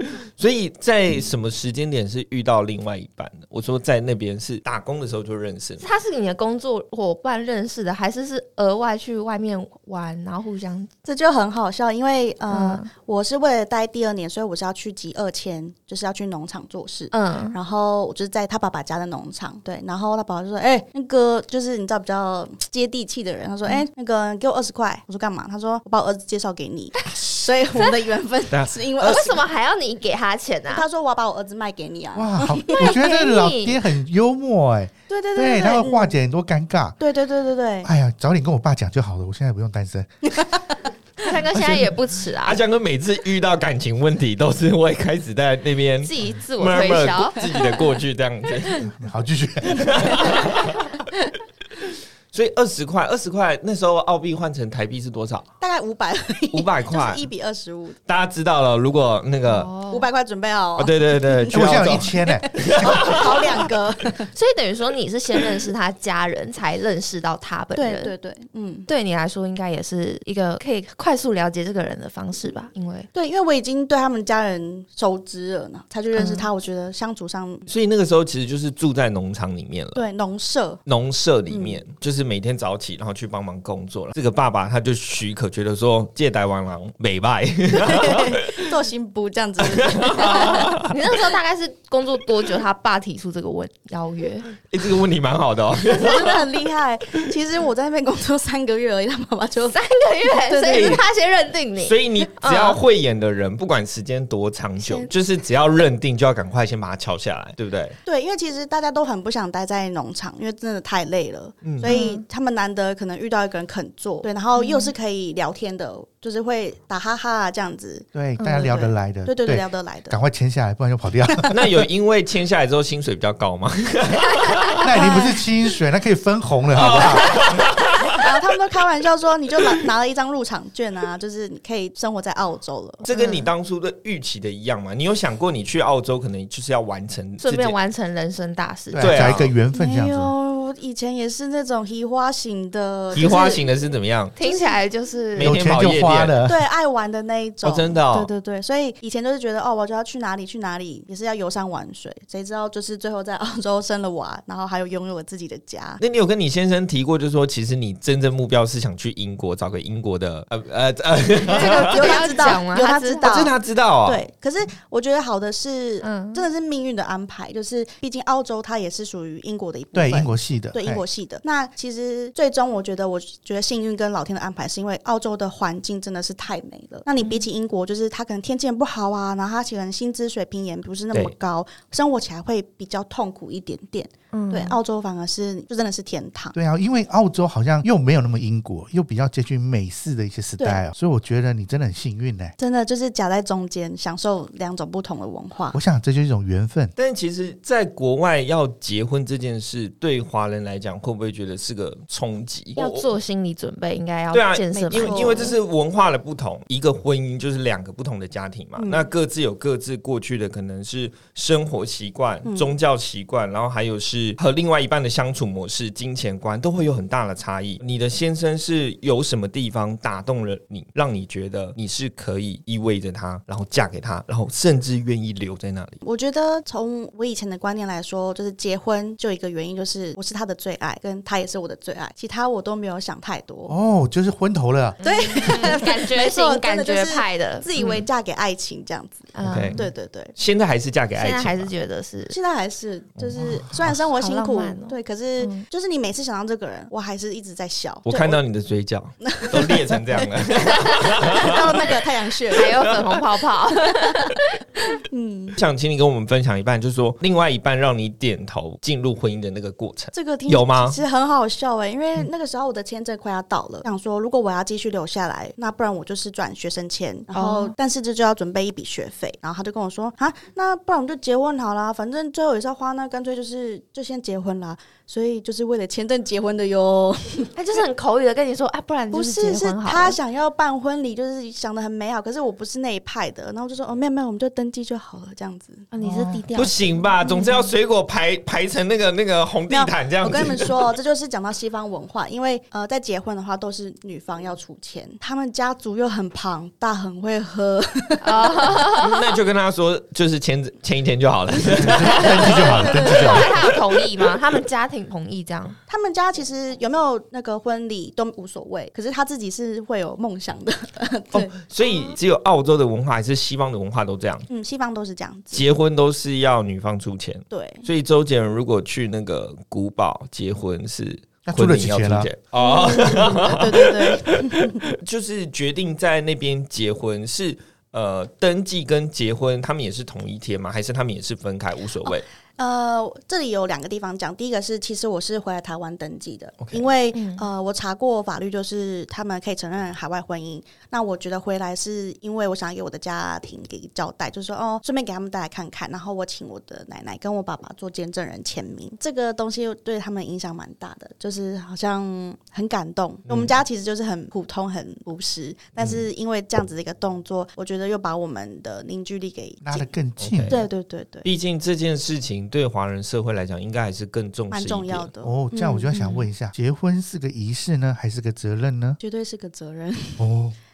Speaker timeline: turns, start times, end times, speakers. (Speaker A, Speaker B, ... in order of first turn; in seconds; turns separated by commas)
Speaker A: 0.4-5.8, Speaker B: 5.8-10.9, Speaker C: 11.1-29.4, Speaker B: 12.5-12.9, Speaker B: 17.1-17.6, Speaker A: 28.5-29.2, Speaker B: 29.0-30.9, Speaker C: 30.7-32.9, Speaker D: 32.1-37.0, Speaker B: 32.7-33.8, Speaker C: 35.1-36.1, Speaker C: 37.0-37.9, Speaker D: 37.8-40.1, Speaker B: 41.2-42.6, Speaker A: 41.5-48.9, Speaker B: 46.0-47.7, Speaker D: 48.9-50.4, Speaker A: 49.6-50.9, Speaker C: 49.7-51.3, Speaker A: 52.3-55.5, Speaker C: 55.6-58.0, Speaker A: 56.5-57.2, Speaker A: 58.1-59.7, Speaker B: 59.5-60.1, Speaker C: 59.9-64.3, Speaker A: 60.8-63.5, Speaker D: 61.5-62.5, Speaker B: 64.3-68.1, Speaker C: 67.8-68.9, Speaker B: 68.9-73.1, Speaker C: 73.1-77.7, Speaker B: 76.1-76.5, Speaker A: 77.7-80.0, Speaker C: 80.0-80.8, Speaker A: 80.9-88.6, Speaker C: 81.5-81.8, Speaker C: 87.7-90.8, Speaker A: 89.7-90.9, Speaker B: 90.2-94.5, Speaker A: 94.6-96.5, Speaker C: 95.9-101.0, Speaker B: 99.7-102.8, Speaker A: 100.7-101.0, Speaker A: 101.8-108.0, Speaker C: 108.0-120.2, Speaker A: 111.6-112.0, Speaker B: 111.9-112.2, Speaker B: 114.6-114.9, Speaker D: 118.1-121.5, Speaker B: 118.4-118.7, Speaker A: 121.5-124.8, Speaker D: 124.8-127.3, Speaker C: 124.9-125.4, Speaker B: 125.0-125.2, Speaker A: 126.8-128.2, Speaker C: 126.9-127.3, Speaker C: 128.1-133.1, Speaker A: 133.0-137.8, Speaker B: 133.1-133.5, Speaker B: 137.4-139.4, Speaker D: 138.9-140.3, Speaker A: 139.0-139.5, Speaker C: 139.7-143.6, Speaker A: 143.1-144.3, Speaker B: 143.2-143.5, Speaker B: 144.4-145.6, Speaker C: 144.4-144.8, Speaker A: 145.4-146.3, Speaker D: 145.4-146.6, Speaker C: 146.4-156.0, Speaker A: 147.6-148.3, Speaker A: 156.0-162.5, Speaker C: 161.4-186.6, Speaker B: 161.5-163.5, Speaker A: 163.2-164.2, Speaker B: 166.0-166.5, Speaker D: 169.9-171.0, Speaker B: 177.2-177.5, Speaker B: 184.3-184.8, Speaker D: 186.6-192.6, Speaker C: 192.6-195.8, Speaker D: 195.7-196.9, Speaker A: 197.0-203.1, Speaker B: 202.8-205.6, Speaker A: 204.3-226.0, Speaker C: 204.7-205.6, Speaker C: 208.8-209.1, Speaker C: 212.4-212.8, Speaker C: 226.0-233.8, Speaker D: 233.7-235.0, Speaker C: 235.0-240.3, Speaker B: 235.0-238.1, Speaker B: 239.3-239.8, Speaker A: 239.4-239.8, Speaker A: 240.3-241.7, Speaker B: 241.2-242.4, Speaker C: 242.3-248.4, Speaker D: 243.4-243.9, Speaker B: 244.1-245.6, Speaker A: 248.1-251.6, Speaker C: 249.2-250.3, Speaker C: 251.2-252.9, Speaker B: 252.5-254.9, Speaker A: 252.8-253.2, Speaker C: 255.1-255.6, Speaker A: 255.6-261.0, Speaker C: 260.1-277.5, Speaker B: 267.3-267.8, Speaker B: 277.6-280.2, Speaker C: 279.1-285.9, Speaker B: 285.9-287.7, Speaker A: 286.6-290.7, Speaker C: 289.7-298.8, Speaker B: 298.2-299.2, Speaker A: 298.9-304.0, Speaker D: 301.8-303.5, Speaker C: 301.8-303.5, Speaker B: 302.4-305.8, Speaker C: 305.9-311.6, Speaker A: 311.3-314.5, Speaker C: 314.5-315.6, Speaker A: 315.5-332.2, Speaker C: 317.5-317.9, Speaker D: 321.5-322.3, Speaker C: 322.6-324.9, Speaker C: 332.0-359.9, Speaker A: 336.6-336.9, Speaker B: 337.1-337.5, Speaker A: 353.3-353.5, Speaker D: 359.6-360.6, Speaker A: 360.2-360.6, Speaker C: 360.5-361.3, Speaker A: 361.2-365.1, Speaker C: 364.5-365.9, Speaker D: 365.2-369.0, Speaker B: 365.9-366.2, Speaker C: 369.0-370.2, Speaker D: 370.2-370.6